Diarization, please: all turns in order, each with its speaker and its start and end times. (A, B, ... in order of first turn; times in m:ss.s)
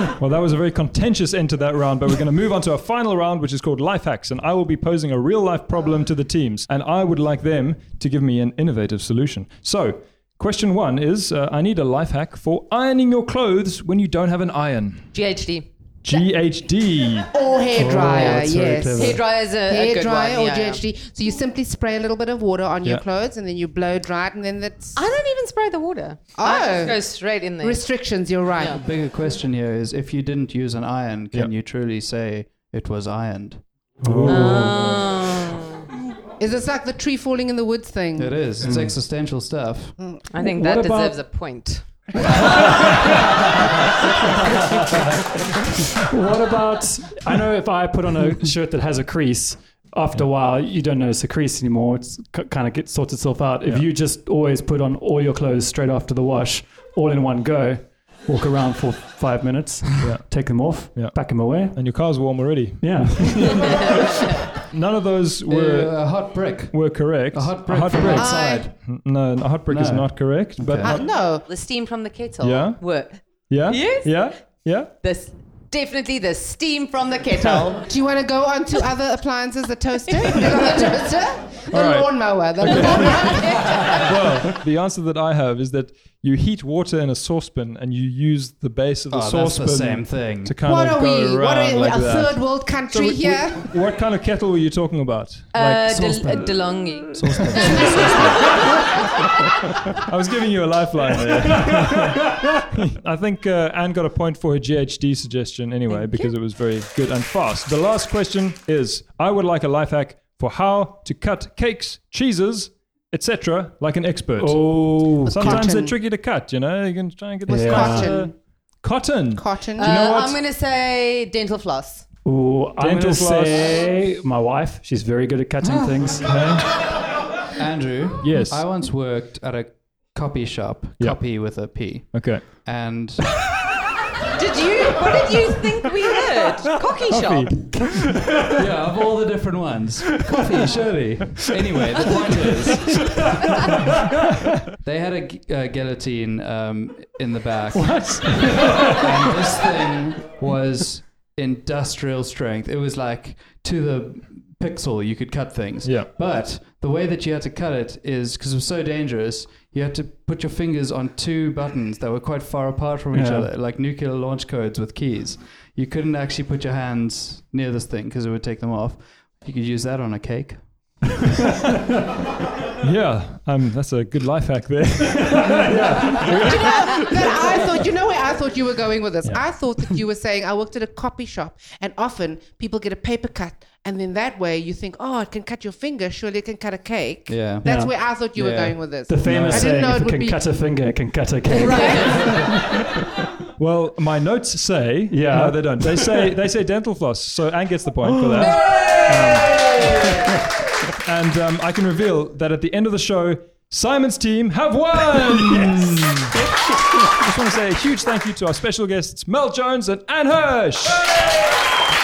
0:00.2-0:15.1 A
0:15.1-0:16.2 B
0:16.0-0:17.3 A
0:17.3-0:25.0 C
0:17.7-0:19.2 D
0:18.9-0:20.8 B
0:24.9-0:28.1 B
0:26.3-0:28.8 C
0:28.6-0:33.6 E
0:34.0-0:34.8 D
0:34.0-0:34.9 A
0:34.2-0:35.9 B
0:36.4-0:38.5 C
0:38.2-0:40.0 E
0:38.6-0:38.9 D
0:40.3-0:41.8 B
0:40.4-0:41.2 D
0:46.0-1:01.8 D
1:00.0-1:11.1 A
1:02.8-1:03.6 D
1:03.4-1:04.1 B
1:05.5-1:08.8 E
1:08.1-1:08.7 B
1:09.7-1:11.0 E
1:10.8-1:11.4 C
1:11.4-1:17.9 B
1:12.4-1:14.9 A
1:17.9-1:24.1 C
1:21.7-1:36.5 A
1:29.1-1:30.5 E
1:30.6-1:33.7 C
1:35.5-1:38.4 B
1:35.9-1:36.6 E
1:37.1-1:38.4 E
1:37.6-1:38.3 C
1:40.0-2:00.4 A
1:54.4-1:55.6 D
1:55.2-1:56.0 C
1:57.5-1:58.3 C
1:57.5-1:58.3 D
1:59.4-1:59.9 C
1:59.8-2:02.0 B
2:02.2-2:06.3 D
2:02.8-2:03.8 A
2:05.6-2:06.2 E
2:06.2-2:06.7 A
2:07.5-2:13.4 E
2:08.2-2:08.6 A
2:11.0-2:12.4 A
2:14.3-2:17.5 B
2:17.1-2:18.5 A
2:17.7-2:18.5 D
2:18.6-2:23.2 E
2:24.8-2:50.6 E
2:27.7-2:29.2 D
2:35.8-2:36.1 A
2:43.1-2:43.5 D
2:52.8-2:57.7 A
2:55.7-2:56.2 D
2:56.4-3:10.5 C
2:59.2-2:59.7 A
3:07.3-3:07.7 E
3:07.6-3:07.9 D
3:08.3-3:08.9 E
3:09.1-3:12.7 D
3:09.2-3:09.7 A
3:11.5-3:12.4 B
3:11.8-3:12.2 C
3:13.6-3:19.9 A
3:15.1-3:16.3 D
3:18.3-3:18.6 D
3:21.0-3:26.4 A
3:27.1-3:31.6 A